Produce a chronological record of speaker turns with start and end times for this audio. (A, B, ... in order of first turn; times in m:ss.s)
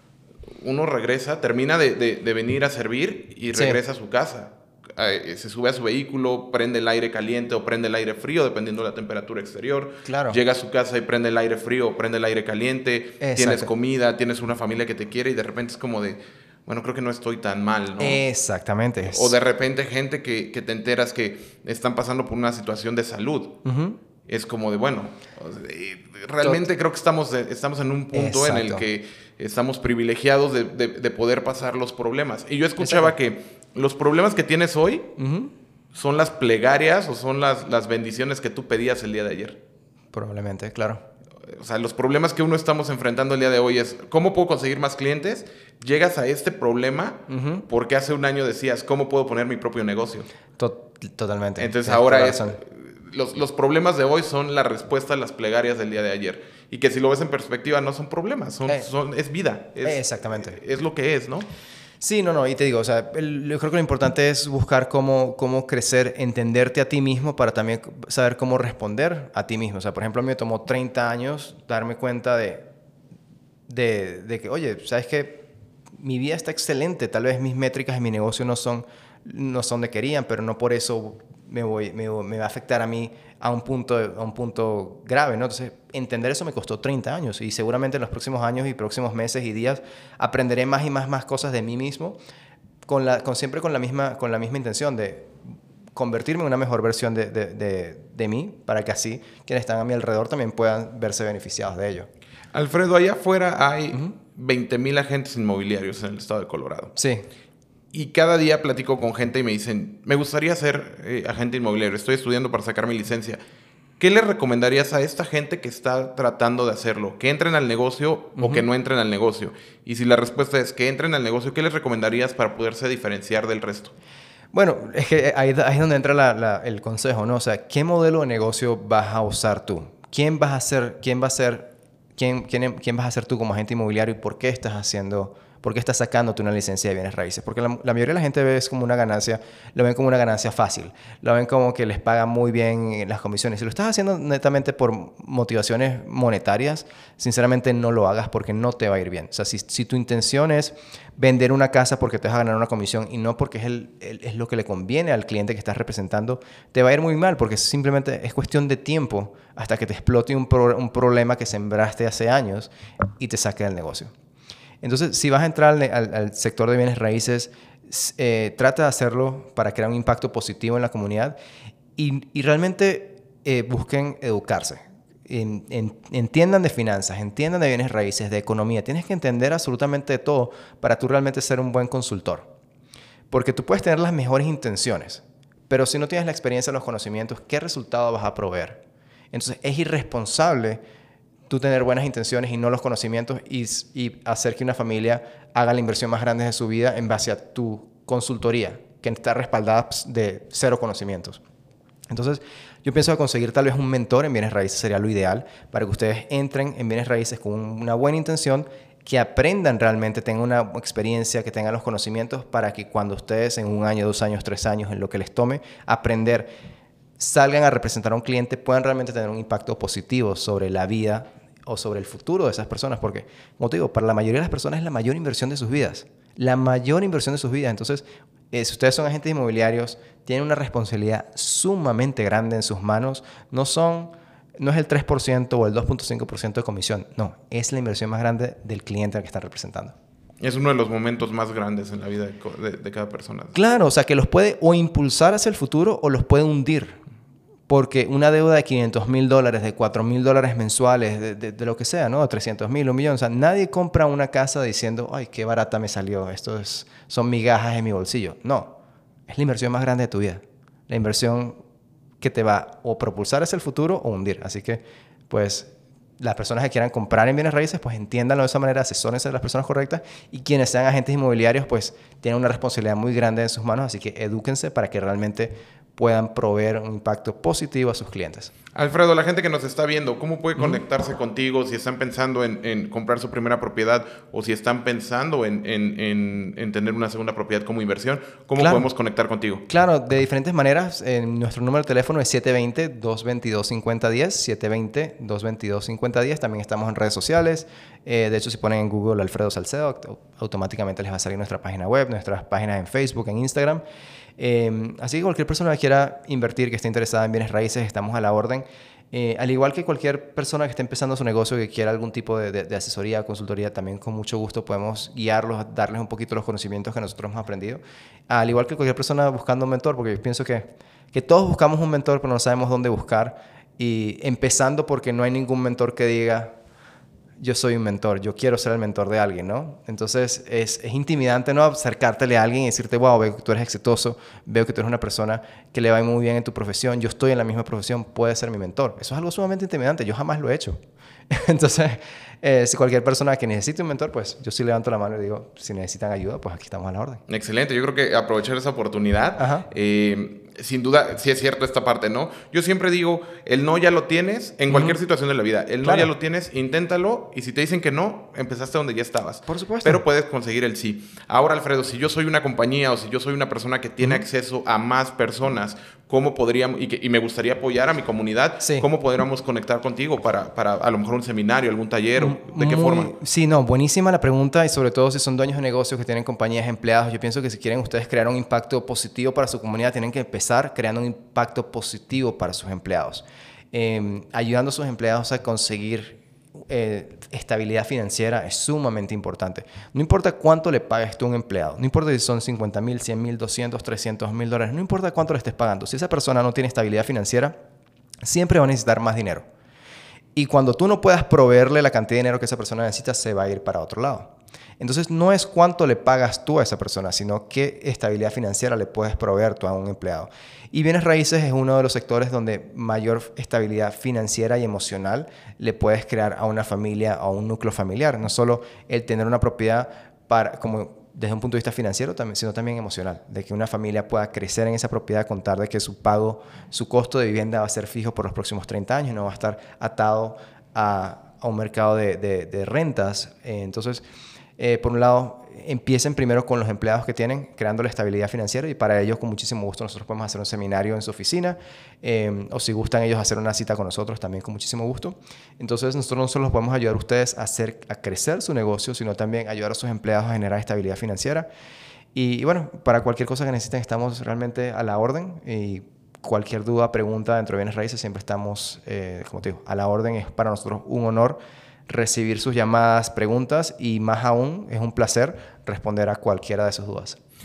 0:00.6-0:18.2 A
0:10.0-0:10.4 B
0:13.2-0:13.7 B
0:18.0-0:19.3 B
0:19.1-0:23.6 A
0:23.6-0:24.0 B
0:24.3-0:35.1 A
0:28.1-0:28.8 B
0:32.8-0:33.1 B
0:35.2-0:35.5 B
0:35.9-0:39.6 A
0:40.1-0:41.0 B
0:41.5-0:50.3 A
0:47.3-0:47.6 B
0:50.6-0:52.6 B
0:51.6-1:01.5 A
0:59.8-1:00.6 B
1:02.0-1:12.6 B
1:13.7-1:32.2 B
1:32.8-1:35.4 B
1:35.9-1:42.1 B
1:42.5-1:46.9 A
1:47.0-1:47.3 B
1:47.9-1:53.4 A
1:54.0-2:03.9 A
1:58.4-1:58.6 B
2:04.5-2:44.1 B
2:44.8-2:51.4 B
2:52.0-3:02.5 B
3:03.3-3:10.8 B
3:11.5-3:21.4 B
3:22.1-3:36.5 B
3:37.2-3:59.9 B
4:00.4-4:03.6 A
4:03.5-4:07.0 B
4:07.7-4:18.8 B
4:19.3-4:21.6 B
4:22.2-4:38.5 B
4:38.7-4:49.6 A
4:48.6-4:48.8 B
4:49.7-5:03.8 B
5:04.4-5:26.6 B
5:27.4-5:40.8 B
5:41.3-5:47.2 B
5:47.3-6:13.1 A
5:49.4-5:49.7 B
5:54.7-5:55.0 B
5:55.8-5:56.1 B
5:59.5-6:00.0 B
6:12.2-6:37.5 B
6:38.2-6:39.4 B
6:40.3-7:14.0 B
7:14.6-7:31.5 B
7:32.1-7:47.2 B